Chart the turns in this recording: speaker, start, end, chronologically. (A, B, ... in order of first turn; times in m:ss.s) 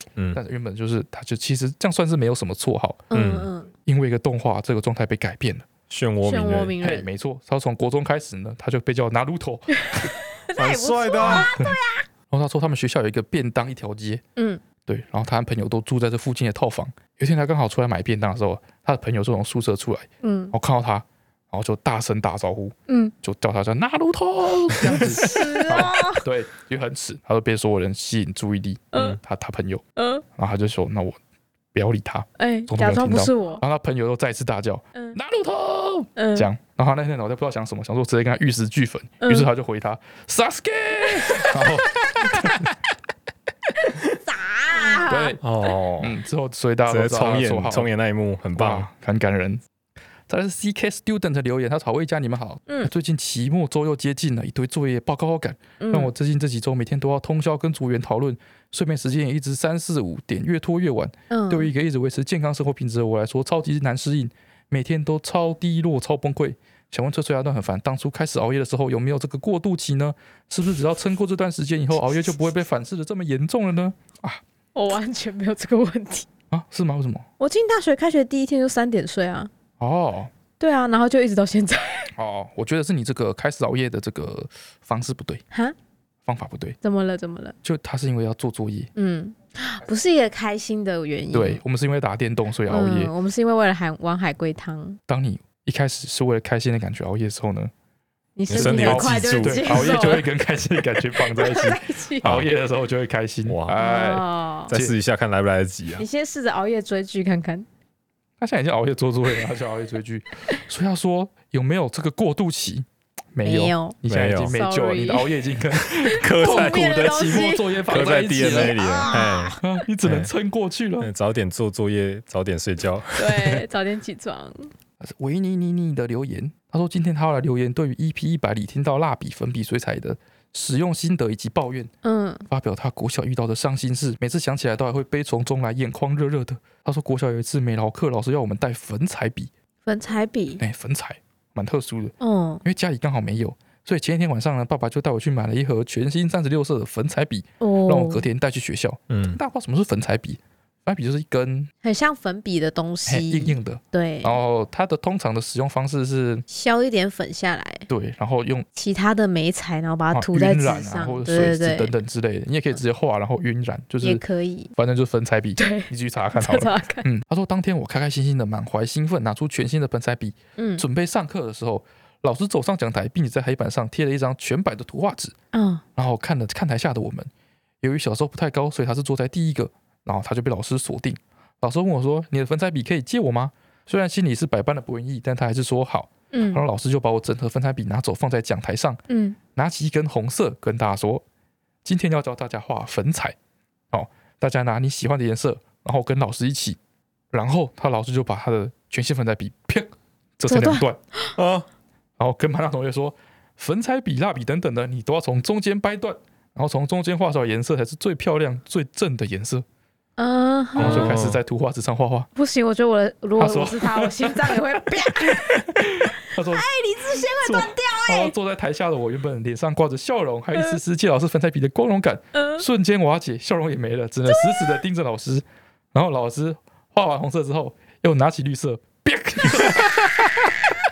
0:00.3-0:03.0 A
0:03.1-0:03.7 B
0:03.1-0:03.5 C
0:03.9-0:05.7 A
0:05.9-0:06.8 C
0:06.2-0:07.1 B
0:06.8-0:10.1 A
0:09.8-0:12.0 B
0:10.6-0:11.5 C
0:12.3-0:14.2 A
0:14.4-0:14.6 B
0:14.9-0:29.8 A
0:20.2-0:20.5 B
0:22.9-0:23.1 B
0:24.8-0:25.1 C
0:24.9-0:26.2 B
0:28.9-0:29.2 B
0:30.0-0:30.2 B
0:30.4-0:31.2 A
0:31.7-0:42.7 A
0:32.4-0:33.6 B
0:36.2-0:36.5 B
0:39.2-0:39.5 B
0:43.8-0:45.4 B
0:45.0-0:45.4 A
0:45.4-0:46.2 C
0:46.0-0:47.9 A
0:46.9-0:48.9 C
0:48.6-0:49.6 A
0:50.3-1:14.4 A
0:55.8-0:56.1 B
1:01.3-1:01.7 B
1:14.7-1:16.3 B
1:16.5-1:17.3 A
1:17.4-1:19.5 B
1:19.8-1:20.3 A
1:20.6-1:22.1 B
1:22.1-1:25.4 A
1:26.2-1:26.8 A
1:26.8-1:27.6 B
1:27.6-1:28.9 A
1:29.0-1:31.6 B
1:31.3-1:33.1 A
1:32.7-1:35.0 B
1:35.1-1:37.7 A
1:38.4-1:40.3 B
1:38.5-1:40.0 C
1:38.5-1:45.0 A
1:41.1-1:42.3 B
1:42.2-1:42.5 C
1:43.5-1:43.8 C
1:43.8-1:44.7 B
1:44.7-1:46.0 C
1:46.0-1:47.7 B
1:48.4-2:01.1 A
1:53.4-1:54.0 B
1:54.1-1:54.6 C
1:54.5-1:55.3 B
1:56.0-1:57.8 B
1:56.0-1:57.4 C
1:57.9-2:00.3 C
1:58.4-1:59.6 B
2:01.0-2:03.6 C
2:03.2-2:04.7 B
2:05.0-2:11.9 A
2:12.0-2:12.4 B
2:12.5-2:19.5 A
2:19.9-2:20.6 B
2:20.6-2:31.7 A
2:22.2-2:22.6 B
2:27.6-2:28.3 B
2:29.1-2:29.4 C
2:31.8-2:34.4 B
2:33.1-2:36.4 A
2:36.5-2:37.9 B
2:37.9-2:38.7 A
2:38.7-2:41.9 B
2:40.1-2:44.2 A
2:44.0-2:44.7 B
2:44.7-2:55.3 A
2:45.6-2:47.1 B
2:50.6-2:50.8 B
2:55.5-2:55.8 B
2:56.0-2:57.3 A
2:57.8-3:09.0 A
3:06.3-3:06.6 B
3:09.1-3:09.4 B
3:09.6-3:11.2 A
3:11.8-3:13.4 A
3:13.9-3:16.8 A
3:17.3-3:21.0 A
3:20.5-3:21.2 B
3:21.4-3:21.6 C
3:22.2-3:29.6 A
3:30.2-3:31.2 B
3:30.8-3:32.3 A
3:30.8-3:31.4 C
3:32.4-3:35.7 B
3:33.4-3:50.6 A
3:36.3-3:38.3 B
3:42.4-3:42.6 B
3:44.3-3:44.8 B